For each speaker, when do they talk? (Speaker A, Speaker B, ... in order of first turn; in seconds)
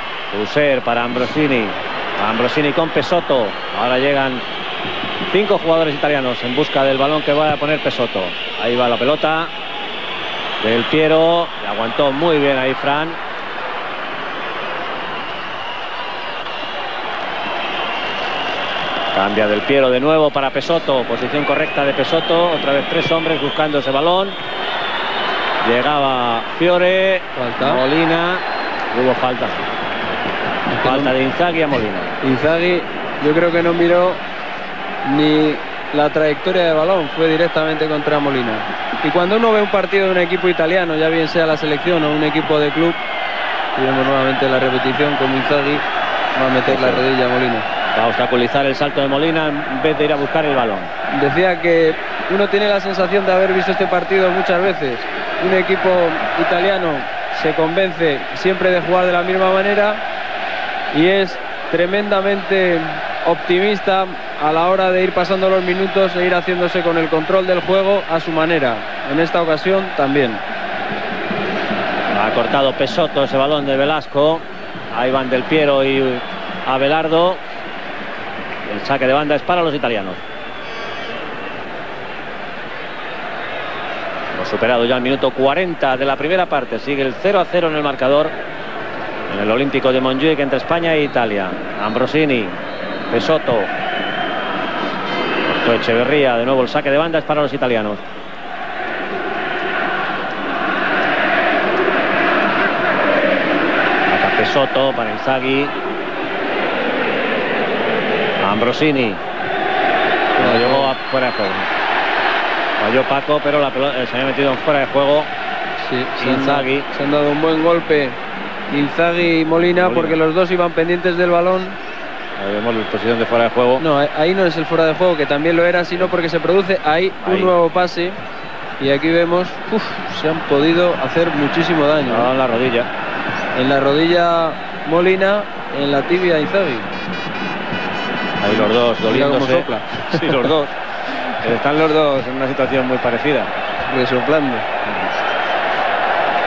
Speaker A: 0.3-4.4, 5.3-9.5, 10.6-13.2, 19.1-24.4, 25.6-29.6, 30.8-32.1, 46.6-47.0, 47.9-50.9, 72.1-77.4, 78.7-80.2, 84.3-88.3, 89.3-92.6, 93.1-93.7, 95.4-98.0, 104.1-105.7, 108.4-109.2, 110.3-111.7, 112.8-115.3, 116.2-116.9, 119.8-120.2, 122.4-123.8, 127.2-127.5, 132.0-132.9, 138.4-140.7, 141.4-143.5
Speaker B: 27.4-27.8, 30.7-31.1, 32.2-34.2, 35.0-43.0, 43.8-47.6, 51.1-60.0, 60.9-70.4, 110.4-110.9, 115.8-118.2, 118.7-121.8, 123.8-128.2, 128.8-132.3, 133.5-136.9, 139.0-140.5, 143.8-144.7